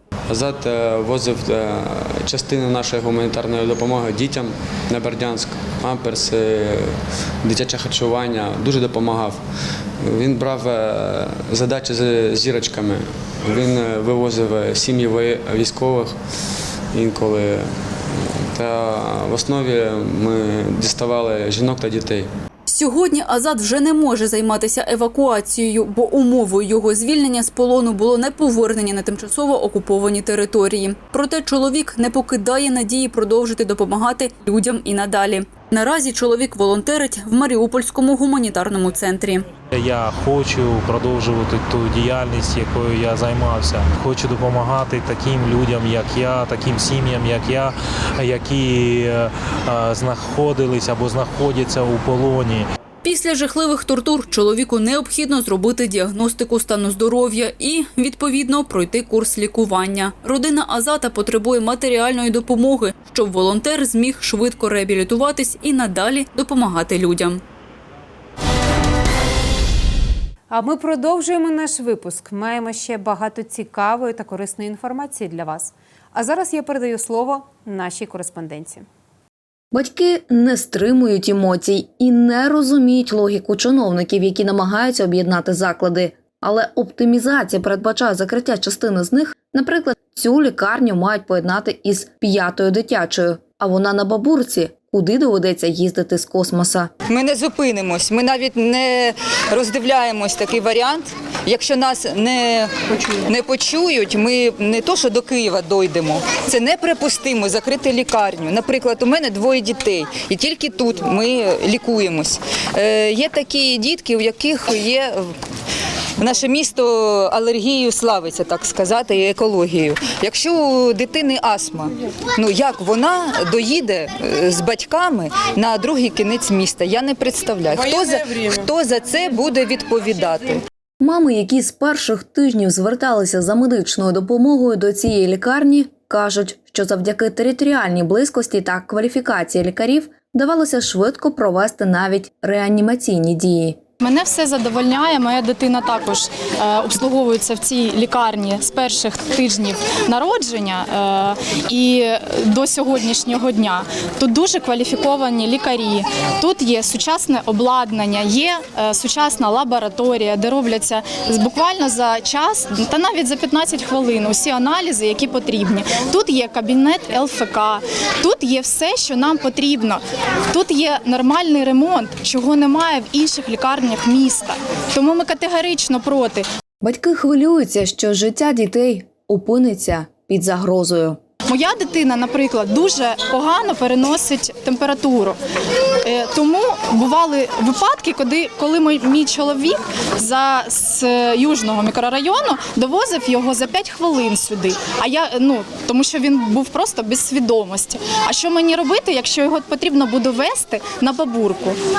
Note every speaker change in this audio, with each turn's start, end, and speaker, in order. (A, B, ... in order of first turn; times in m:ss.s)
0:00.3-0:22.3 A
0:22.7-0:39.4 B
0:39.7-0:52.6 C
0:53.0-1:07.4 B
1:10.5-1:18.8 D
1:19.7-1:36.9 E
1:37.1-1:55.3 F
1:56.2-2:10.6 F
2:11.0-2:23.8 E
2:24.0-2:56.5 G
2:56.8-3:01.2 E
3:01.5-3:05.4 G
3:06.0-3:21.8 G